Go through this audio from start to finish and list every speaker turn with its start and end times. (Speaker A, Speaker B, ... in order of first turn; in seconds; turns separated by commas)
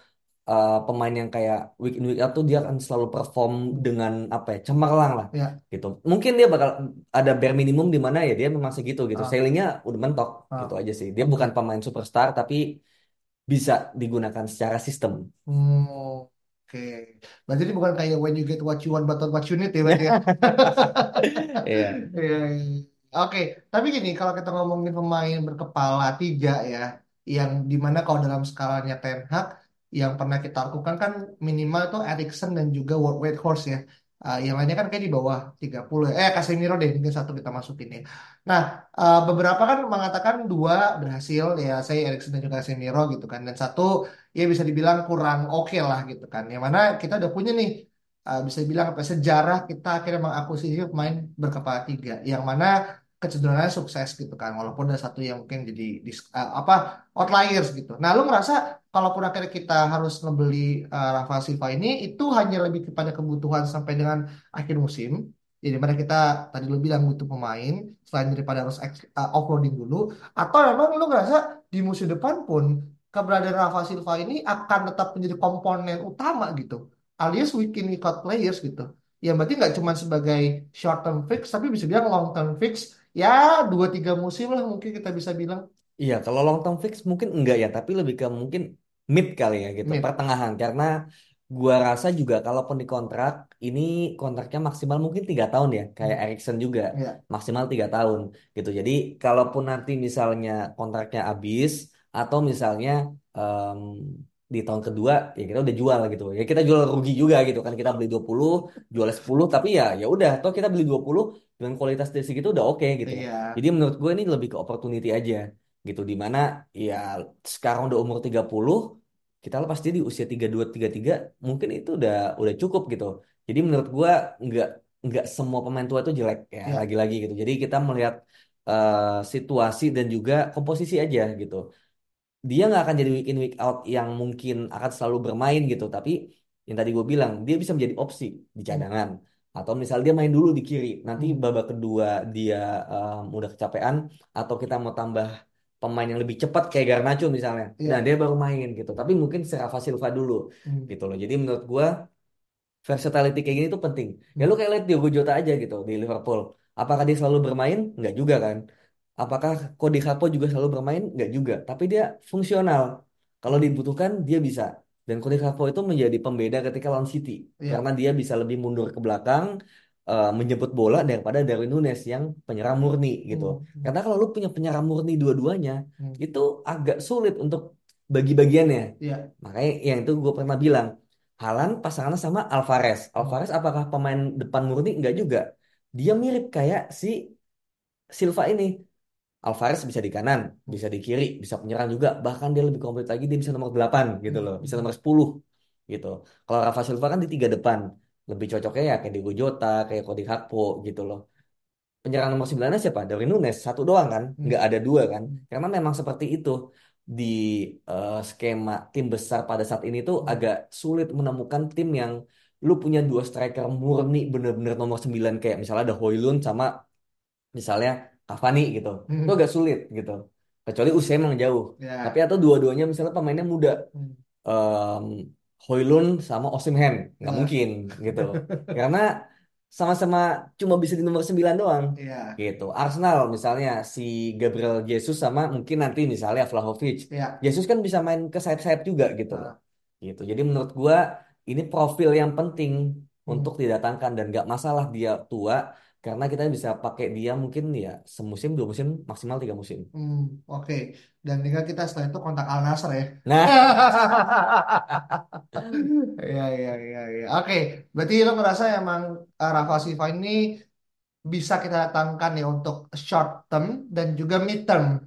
Speaker A: 0.5-12.6, Speaker B: 10.5-11.5, Speaker A: 13.5-15.2, Speaker B: 15.5-85.6, Speaker A: 19.9-22.0, Speaker A: 86.0-90.9, Speaker A: 91.5-118.8, Speaker B: 113.0-113.5, Speaker A: 119.4-128.2, Speaker A: 128.7-131.6, Speaker A: 132.5-136.2, Speaker A: 136.7-145.3, Speaker A: 145.8-151.9, Speaker A: 152.8-158.6, Speaker A: 159.2-162.9, Speaker A: 163.4-169.5, Speaker A: 170.1-178.9, Speaker B: 173.3-173.9, Speaker A: 179.4-180.9, Speaker A: 181.4-185.4, Speaker A: 186.0-187.2, Speaker A: 188.2-188.7, Speaker A: 189.5-195.4, Speaker B: 194.3-194.9, Speaker A: 195.9-201.2, Speaker A: 202.0-206.6, Speaker A: 207.1-212.1, Speaker A: 212.6-216.7, Speaker A: 217.5-223.7, Speaker B: 219.1-219.3, Speaker B: 221.8-222.2, Speaker A: 224.5-229.1, Speaker B: 227.2-227.5, Speaker B: 228.3-228.7, Speaker A: 229.7-239.5, Speaker B: 232.0-232.3, Speaker A: 240.0-249.9, Speaker B: 249.9-260.4, Speaker A: 253.3-253.6, Speaker B: 261.3-264.9